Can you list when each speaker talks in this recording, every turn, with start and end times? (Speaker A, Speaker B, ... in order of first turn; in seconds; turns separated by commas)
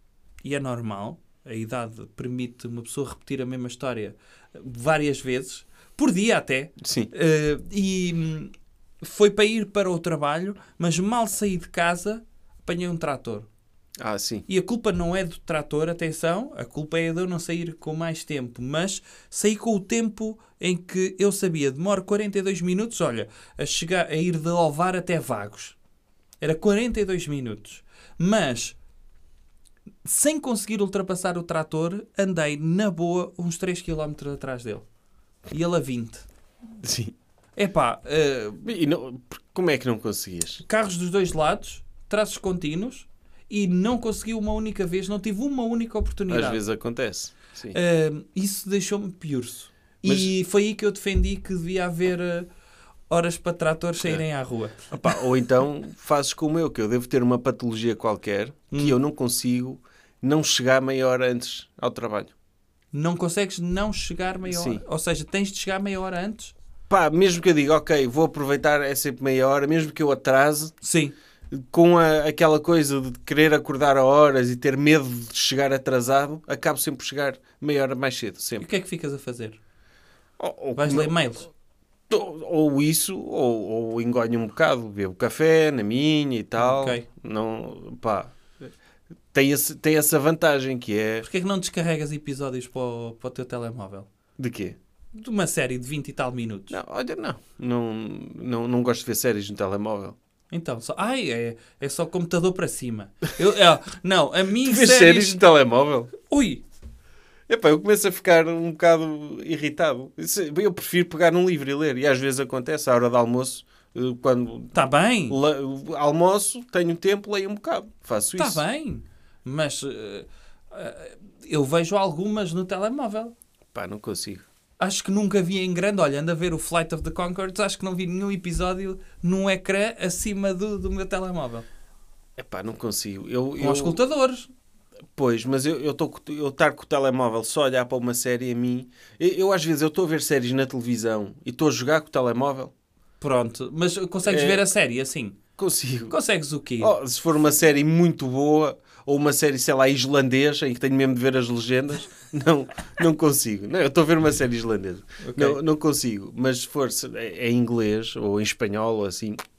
Speaker A: 0.4-13.5, Speaker B: 6.8-7.1, Speaker B: 14.0-14.4, Speaker A: 14.5-25.8, Speaker A: 26.4-28.8, Speaker A: 30.1-34.9, Speaker A: 35.5-36.3, Speaker B: 36.8-37.1, Speaker A: 37.6-38.6, Speaker B: 38.6-40.6, Speaker A: 40.6-46.6, Speaker B: 46.3-47.8, Speaker A: 47.7-52.5, Speaker B: 50.0-50.3, Speaker A: 53.1-54.9, Speaker B: 54.9-62.3, Speaker A: 58.7-59.0, Speaker A: 62.9-66.5, Speaker B: 64.5-64.8, Speaker B: 66.9-70.7, Speaker A: 70.8-71.1, Speaker B: 71.5-78.6, Speaker A: 78.6-79.6, Speaker B: 80.4-81.1, Speaker A: 80.8-81.5, Speaker B: 82.1-88.7, Speaker A: 86.6-87.0, Speaker B: 89.3-91.2, Speaker A: 91.2-94.1, Speaker B: 94.4-94.8, Speaker A: 95.2-96.7, Speaker B: 96.7-100.2, Speaker A: 100.5-105.4, Speaker B: 104.6-106.1, Speaker A: 106.2-106.6, Speaker B: 107.5-114.7, Speaker A: 114.7-115.4, Speaker B: 115.3-118.6, Speaker A: 118.4-123.3, Speaker B: 123.7-124.5, Speaker A: 124.8-131.7, Speaker B: 132.4-134.0, Speaker A: 133.6-134.5, Speaker B: 135.2-142.7, Speaker A: 143.2-145.4, Speaker B: 144.3-144.6, Speaker B: 145.6-146.2, Speaker A: 146.1-146.9, Speaker B: 146.8-159.4, Speaker A: 155.2-155.6